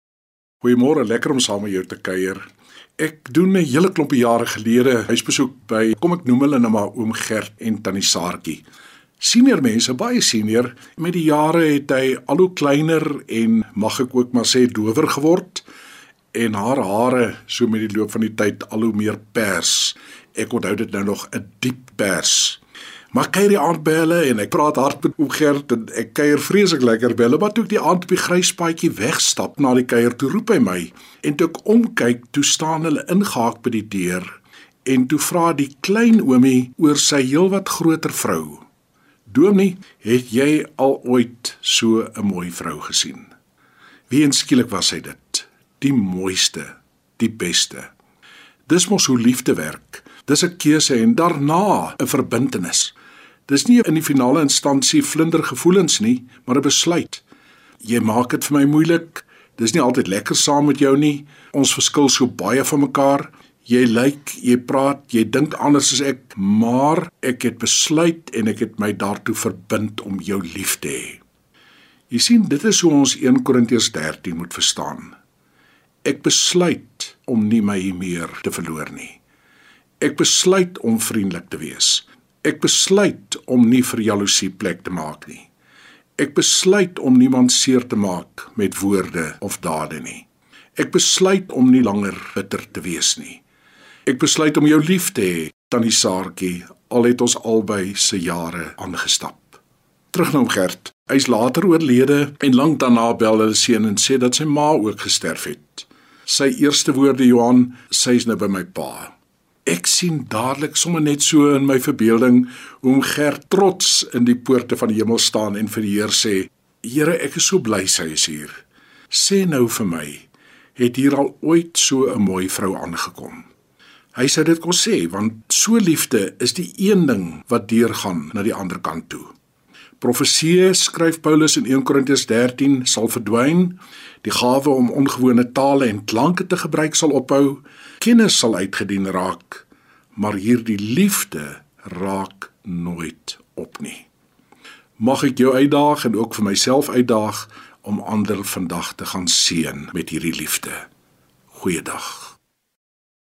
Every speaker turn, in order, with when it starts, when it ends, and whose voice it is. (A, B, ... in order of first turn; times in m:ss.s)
0:00.6-0:02.4 A
0:03.0-0:08.6 A
0:09.2-0:15.6 A
0:16.3-0:22.6 A
0:23.1-0:38.6 A
0:39.3-0:43.3 A
0:44.1-0:47.9 A
0:48.7-0:52.9 A
0:53.5-0:57.2 A
0:57.8-1:11.2 A
1:12.1-1:15.2 A
1:16.0-1:19.2 A
1:20.0-1:25.5 A
1:26.2-1:30.2 A
1:30.8-1:33.4 A
1:34.0-1:39.6 A
1:40.1-1:49.1 A
1:49.6-2:03.5 A
2:04.1-2:09.3 A
2:10.0-2:24.0 A
2:25.0-2:30.8 A
2:31.5-2:32.3 A